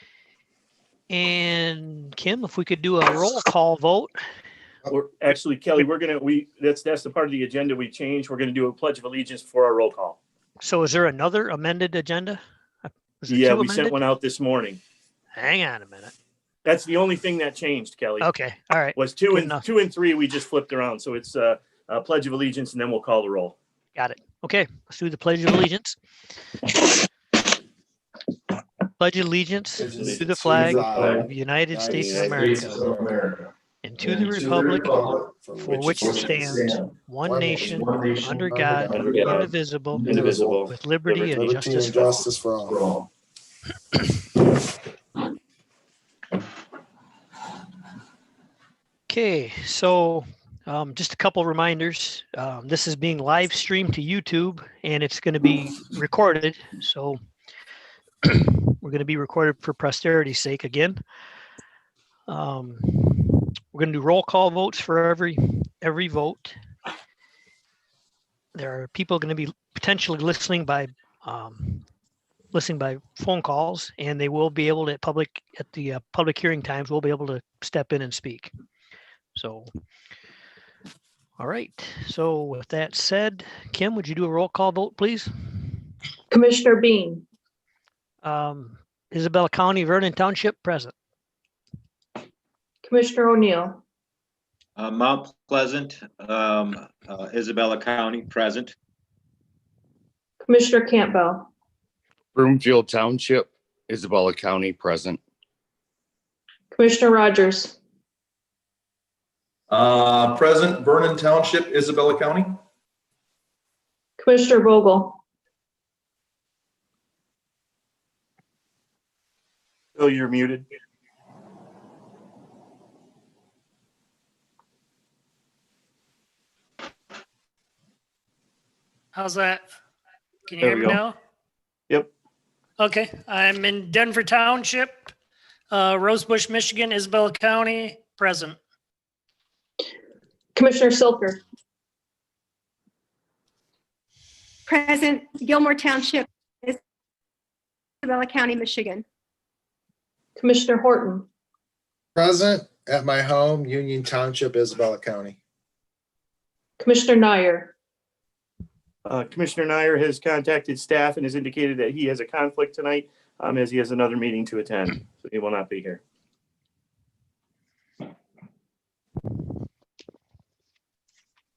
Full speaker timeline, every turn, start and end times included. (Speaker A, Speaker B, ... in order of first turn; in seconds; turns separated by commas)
Speaker A: 1.1-4.1, Speaker B: 4.9-10.2, Speaker A: 10.6-14.0, Speaker B: 13.3-14.8, Speaker A: 15.3-16.1, Speaker B: 16.6-18.3, Speaker A: 18.2-19.6, Speaker B: 18.9-23.6, Speaker A: 23.9-25.9, Speaker A: 29.0-32.9, Speaker C: 29.8-33.2, Speaker B: 29.9-31.2, Speaker A: 33.8-35.1, Speaker C: 34.8-36.6, Speaker A: 35.6-42.3, Speaker C: 37.2-39.5, Speaker B: 38.9-41.3, Speaker C: 40.1-40.5, Speaker C: 41.3-42.8, Speaker B: 42.7-43.0, Speaker A: 49.1-57.2, Speaker A: 58.2-61.0, Speaker A: 62.3-66.5, Speaker A: 68.5-71.8, Speaker A: 72.5-78.5, Speaker A: 79.3-79.7, Speaker A: 81.4-85.7, Speaker D: 86.3-87.2, Speaker A: 88.2-90.9, Speaker D: 92.8-93.8, Speaker E: 94.8-98.7, Speaker D: 100.4-101.5, Speaker F: 102.3-105.2, Speaker D: 106.7-107.8, Speaker G: 109.7-112.6, Speaker D: 114.2-115.2, Speaker B: 120.0-120.6, Speaker H: 129.1-129.6, Speaker H: 130.5-131.2, Speaker B: 130.6-131.0, Speaker H: 132.8-135.1, Speaker H: 135.7-138.6, Speaker D: 140.5-141.4, Speaker I: 144.7-146.8, Speaker I: 148.0-149.0, Speaker D: 150.3-151.3, Speaker C: 152.2-155.4, Speaker D: 156.8-157.7, Speaker B: 159.0-166.0